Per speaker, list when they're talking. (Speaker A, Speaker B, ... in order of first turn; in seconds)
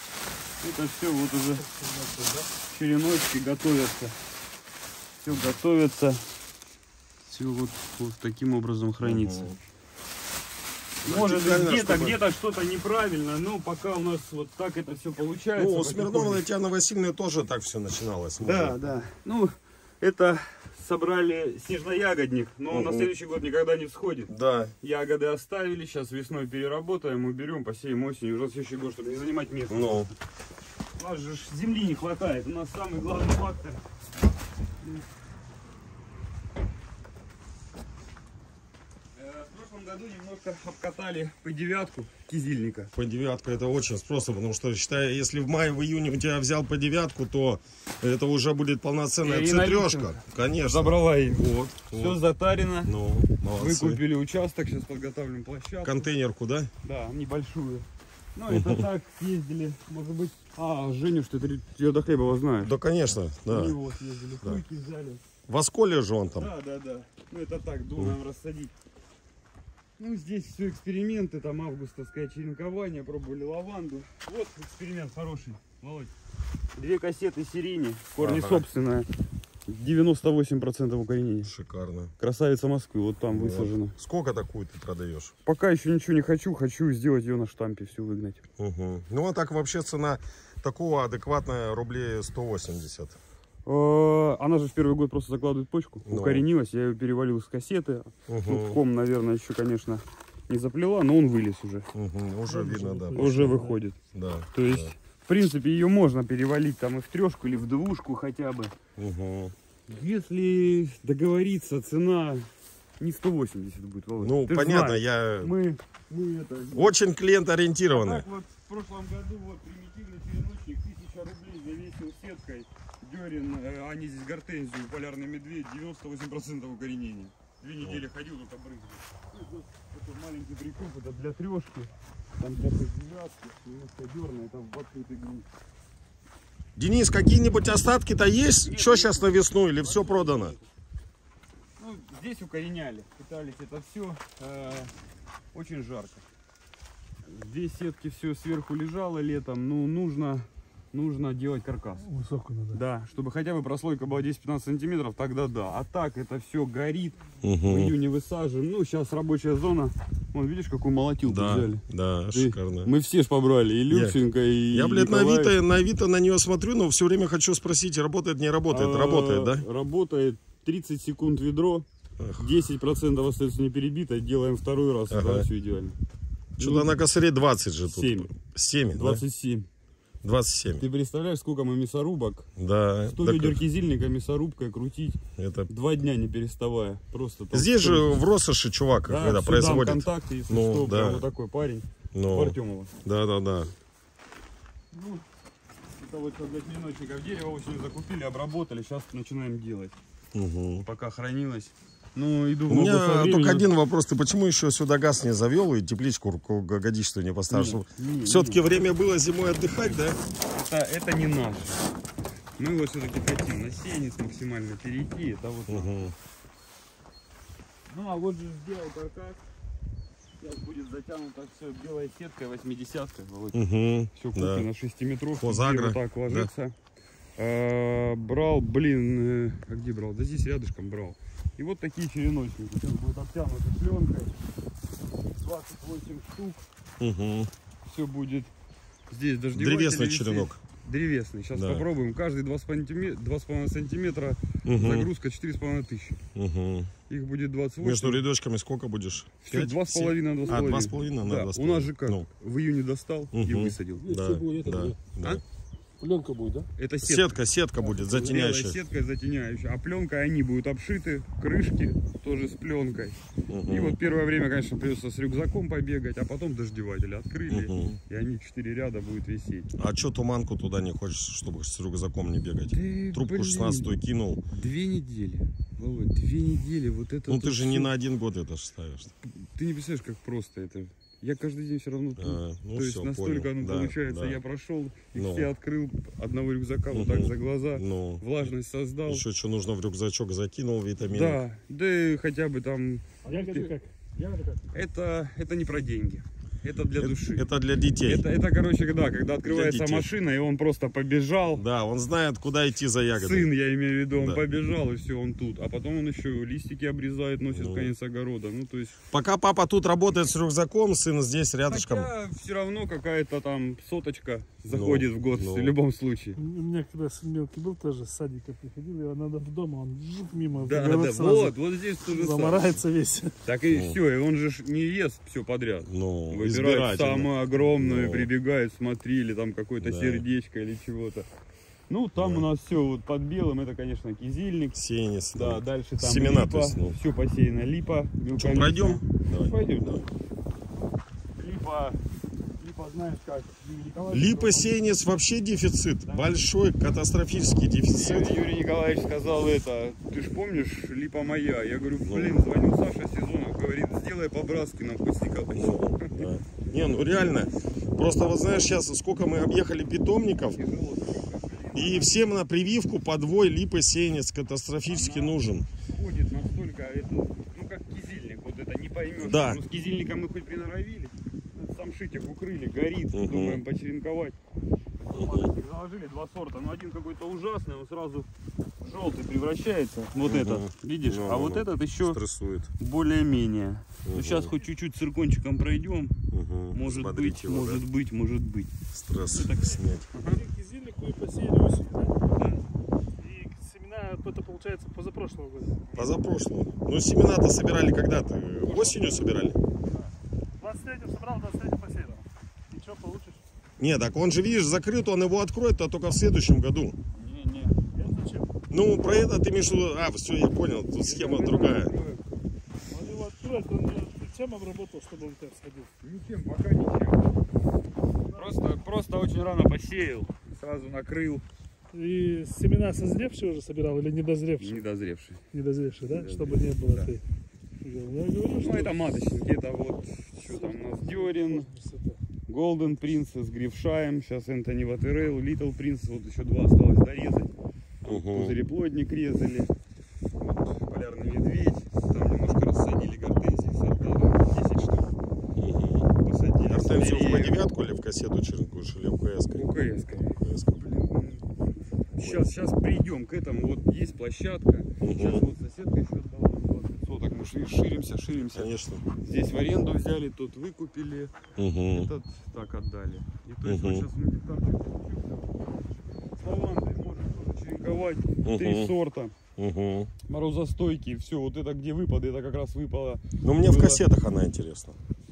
Speaker A: 0.6-1.7, 2.7-4.2, 5.2-6.2, 7.2-9.6, 11.0-16.4, 18.4-30.1, 30.9-33.8, 39.1-42.9, 49.2-52.9, 53.5-56.1, 56.8-62.8, 63.5-65.2, 66.4-68.7, 70.0-76.1, 76.8-79.1, 79.7-81.5, 82.2-84.0, 85.4-88.4, 93.7-101.9, 103.2-104.0, 104.5-108.7, 109.9-112.5, 113.0-116.9, 117.9-135.5, 138.6-140.7, 141.8-144.9, 145.5-146.2, 147.2-152.1, 152.7-165.6, 168.7-171.8, 172.4-176.0, 176.6-176.9, 177.9-178.3, 178.9-179.7, 180.8-182.5, 183.1-188.2, 189.0-192.9, 194.9-195.2, 196.0-200.0, 200.8-203.7, 207.5-208.7, 210.4-211.8, 212.6-215.9, 217.9-219.4, 220.4-223.6, 224.1-226.7, 227.4-234.3, 235.3-236.7, 237.8-238.5, 239.1-246.2, 247.1-248.2, 249.4-254.1, 256.8-257.4, 258.0-269.7, 272.7-273.9, 274.5-277.9, 279.2-289.2, 291.1-293.7, 294.7-297.5, 298.0-301.6, 303.1-309.0, 311.7-316.4, 320.6-322.8, 323.4-331.3, 331.9-334.8, 335.3-340.1, 341.4-342.0, 342.6-344.8, 346.1-346.4, 347.9-356.3, 360.5-362.2, 364.9-374.4, 375.0-378.3, 378.8-382.2, 382.8-386.1, 386.7-388.7, 389.3-390.4, 392.3-392.6, 395.9-396.2, 398.6-400.1, 407.1-407.8, 411.0-412.2, 416.0-417.4, 418.3-421.4, 424.6-425.4, 426.1-427.1, 428.5-431.7, 432.5-439.7, 440.4-445.2, 446.2-447.6, 449.5-461.3, 461.9-469.3, 470.3-474.1
Speaker B: 1.6-2.5, 102.5-103.8, 152.1-152.8, 254.0-255.0, 256.0-256.7, 293.2-294.6, 316.4-323.4, 389.3-392.4, 393.2-395.8, 400.6-403.4, 407.9-408.6, 412.9-415.9, 421.9-424.9, 425.5-427.2, 427.8-429.1, 430.4-432.2
Speaker C: 9.0-9.5, 11.0-12.2, 15.6-18.8, 22.7-23.1, 24.3-24.7, 29.7-30.1, 42.9-52.2, 52.8-54.0, 55.8-56.7, 58.5-58.8, 62.6-63.8, 65.5-66.5, 78.2-78.7, 81.4-82.1, 83.3-85.3, 88.6-93.2, 96.0-96.5, 98.3-98.8, 101.9-103.6, 104.1-104.9, 109.0-109.5, 114.2-115.5, 116.7-118.2, 136.8-140.5, 157.4-157.9, 161.2-162.9, 163.9-164.2, 164.7-169.6, 172.2-172.5, 175.1-175.5, 176.6-179.2, 180.2-180.8, 182.6-183.6, 185.4-185.7, 187.5-191.2, 192.1-193.7, 200.3-200.8, 202.7-210.2, 215.7-216.2, 223.5-224.7, 225.3-226.5, 237.0-237.5, 239.5-240.6, 241.5-241.8, 244.7-245.1, 246.3-246.9, 247.8-252.3, 253.3-255.4, 257.0-258.8, 263.5-264.0, 267.5-268.0, 269.7-274.4, 277.3-279.1, 282.2-284.4, 285.1-285.5, 286.9-288.5, 289.1-291.4, 297.0-298.2, 299.4-300.1, 301.5-303.5, 304.1-304.4, 307.5-307.9, 309.1-312.1, 314.7-315.7, 323.7-324.0, 325.9-328.3, 329.8-330.2, 332.1-332.5, 334.8-337.0, 338.4-340.0, 344.1-348.4, 352.0-352.4, 355.5-360.6, 361.8-365.7, 369.2-369.6, 373.1-373.6, 375.1-375.5, 380.2-382.7, 384.0-384.5, 386.3-387.8, 388.9-390.1, 395.9-399.6, 403.8-406.9, 408.7-411.9, 438.1-438.6, 445.6-446.1, 446.6-449.7, 450.4-450.8, 452.2-452.5, 455.0-455.4, 458.5-459.0, 461.6-462.1, 463.6-464.1, 468.4-468.9, 469.6-470.1, 473.4-475.0